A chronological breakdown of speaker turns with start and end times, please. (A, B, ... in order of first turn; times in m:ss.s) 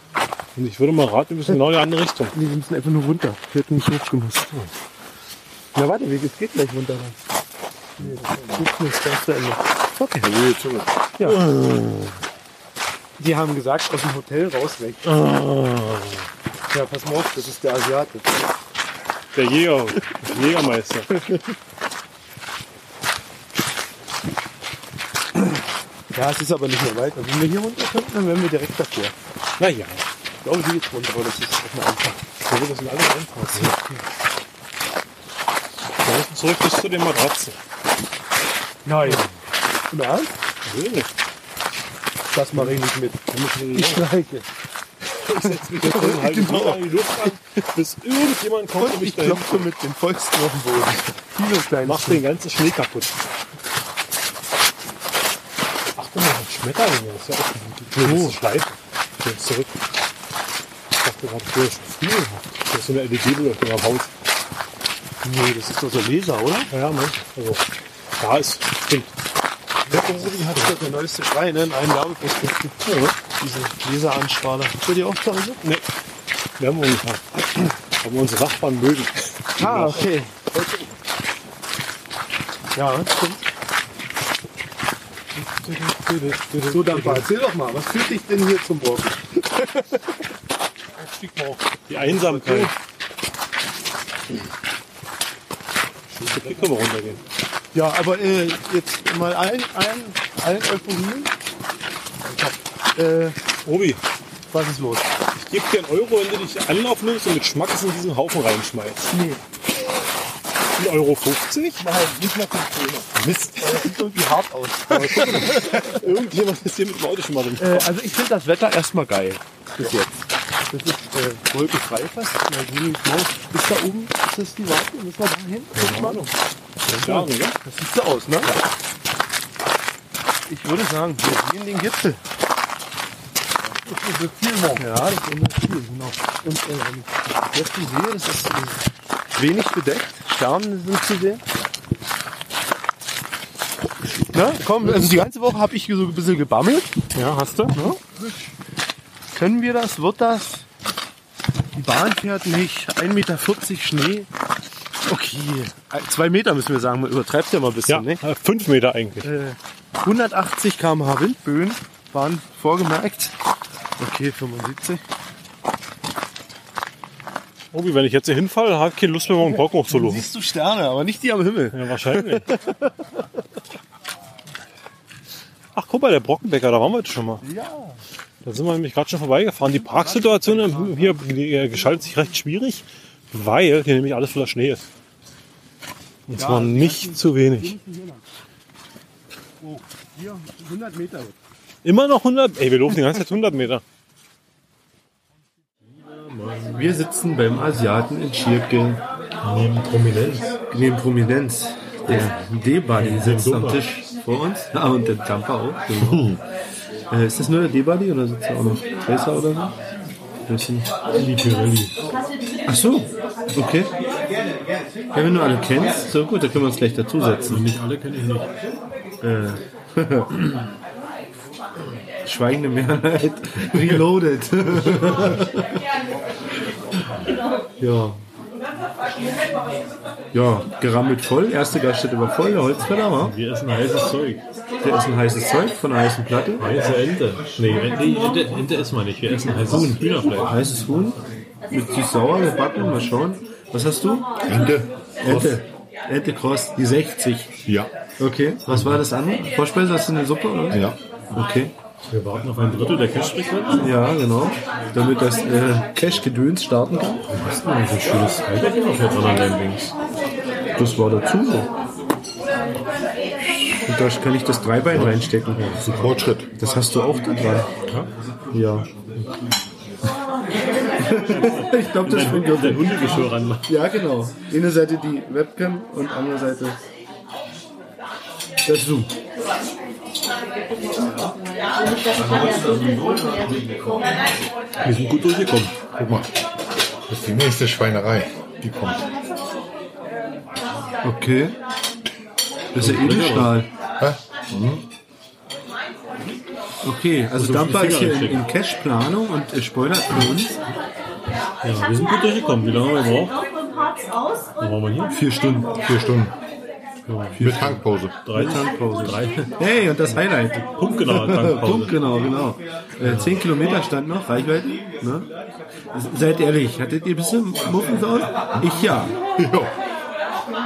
0:00.6-0:02.4 A
0:02.3-0:04.5 B
0:05.7-0:07.2 B
0:08.0-0:08.6 C
0:08.0-0:10.3 B
0:10.2-0:10.9 C
0:11.2-0:11.4 B
0:11.2-0:12.1 A
0:13.2-0:15.1 B
0:15.0-0:16.3 A
0:16.7-0:18.4 B
0:19.3-0:21.2 A
0:26.1-0:29.1 B
0:29.6-0:30.0 A
0:30.4-0:32.2 B
0:32.4-0:34.0 A
0:33.5-0:33.8 B
0:36.0-0:37.6 A
0:38.8-0:39.3 B
0:39.0-0:39.4 A
0:39.9-0:40.3 B
0:40.6-0:41.1 A
0:42.3-0:44.5 B
0:42.5-0:44.0 A
0:45.2-0:49.7 A
0:45.4-0:47.4 B
0:48.8-0:52.2 B
0:51.8-0:53.2 A
0:56.0-0:59.7 A
0:57.9-0:58.4 B
1:01.0-1:04.1 A
1:02.0-1:02.4 B
1:05.2-1:06.7 B
1:06.7-1:07.6 A
1:08.2-1:09.1 A
1:09.9-1:10.8 A
1:09.9-1:15.6 B
1:12.8-1:13.2 A
1:16.6-1:20.1 A
1:19.6-1:20.8 B
1:22.7-1:23.4 B
1:25.3-1:27.3 A
1:26.6-1:30.0 B
1:31.0-1:32.7 A
1:31.9-1:32.7 B
1:36.1-1:37.2 A
1:37.7-1:41.3 B
1:42.2-1:43.4 B
1:43.6-1:44.0 A
1:44.5-1:45.1 B
1:45.4-1:49.1 A
1:49.1-1:49.4 B
1:50.7-1:51.8 A
1:51.8-1:56.0 B
1:53.1-1:54.0 A
1:54.9-1:57.9 A
1:57.6-2:06.3 B
2:05.7-2:06.3 A
2:06.8-2:08.6 B
2:06.9-2:07.5 A
2:10.5-2:12.2 B
2:13.9-2:14.5 A
2:14.7-2:18.8 B
2:19.3-2:21.4 B
2:24.3-2:27.0 B
2:27.1-2:27.9 A
2:27.7-2:28.0 B
2:29.3-2:30.6 B
2:31.7-2:34.3 B
2:35.0-2:38.2 B
2:37.9-2:39.3 A
2:39.2-2:43.3 B
2:44.0-2:45.0 B
2:47.7-2:50.3 A
2:49.4-2:53.0 B
2:51.7-2:52.5 A
2:55.7-2:57.4 A
2:57.4-2:58.0 B
2:58.4-3:04.8 A
2:59.9-3:01.0 B
3:06.3-3:07.8 A
3:06.3-3:08.2 B
3:09.6-3:11.3 B
3:11.8-3:13.8 A
3:15.9-3:16.8 A
3:16.7-3:19.0 B
3:19.4-3:20.5 A
3:20.7-3:26.3 B
3:22.9-3:23.9 A
3:26.0-3:26.4 C
3:27.1-3:29.7 B
3:30.4-3:30.9 B
3:31.1-3:31.9 A
3:32.7-3:33.9 B
3:35.1-3:37.6 B
3:37.5-3:38.5 A
3:39.2-3:40.3 B
3:42.2-3:45.7 B
3:47.8-3:48.2 B
3:50.3-3:53.3 B
3:53.2-3:54.4 A
3:54.8-3:56.6 B
3:56.6-4:00.6 A
3:59.3-4:01.2 B
4:01.7-4:04.3 B
4:04.4-4:05.6 C
4:05.2-4:07.5 B
4:07.6-4:07.9 C
4:08.2-4:11.7 B
4:08.6-4:09.0 A
4:10.7-4:11.0 C
4:12.1-4:13.9 A
4:13.8-4:17.2 B
4:17.3-4:19.9 A
4:20.8-4:21.7 B
4:23.8-4:27.7 B
4:25.6-4:26.0 A
4:25.8-4:26.5 C
4:28.5-4:28.9 B
4:31.0-4:36.8 B
4:31.2-4:33.6 A
4:38.6-4:39.1 B
4:44.8-4:45.7 A
4:46.0-4:46.3 C
4:47.1-4:49.0 C
4:51.0-4:51.6 B
4:52.7-4:53.7 B
4:52.8-4:53.6 A
4:54.0-4:54.8 C
4:56.8-5:00.6 B
4:57.4-4:58.4 A
5:01.6-5:03.4 A
5:04.6-5:05.2 A
5:05.1-5:05.8 B
5:05.8-5:06.3 C
5:07.0-5:09.5 A
5:07.4-5:08.1 C
5:08.3-5:15.3 B
5:10.7-5:12.0 A
5:13.0-5:13.4 A
5:15.9-5:19.1 B
5:18.6-5:19.7 C